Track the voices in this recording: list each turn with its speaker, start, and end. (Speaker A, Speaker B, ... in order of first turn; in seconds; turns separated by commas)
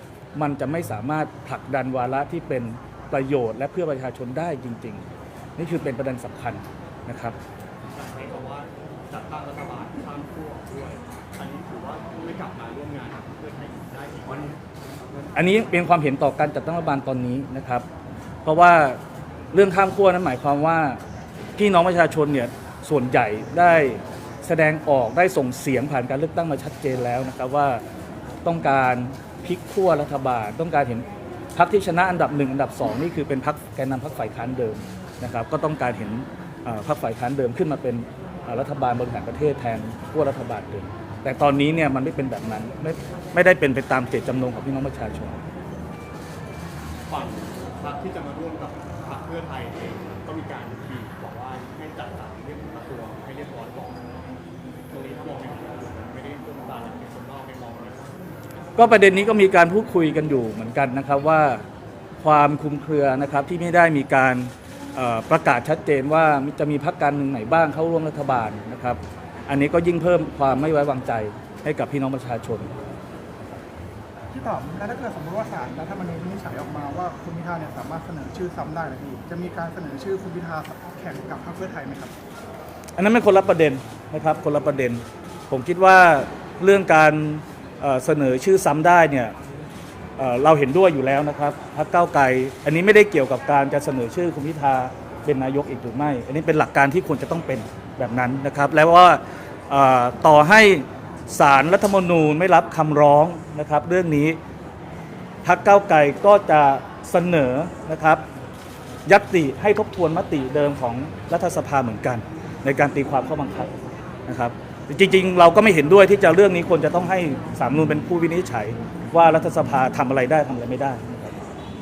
Speaker A: 0.3-5.1, Speaker A: 5.6-7.4, Speaker B: 7.9-15.3, Speaker A: 15.3-17.9, Speaker A: 18.4-19.0, Speaker A: 19.5-21.0, Speaker A: 21.6-27.8, Speaker A: 28.4-45.4, Speaker B: 47.1-54.0, Speaker B: 54.9-58.2, Speaker A: 58.8-61.6, Speaker A: 62.2-72.7, Speaker C: 74.3-82.1, Speaker A: 83.0-89.3, Speaker A: 90.2-104.4, Speaker A: 105.4-108.2, Speaker A: 109.1-113.7, Speaker A: 114.3-121.4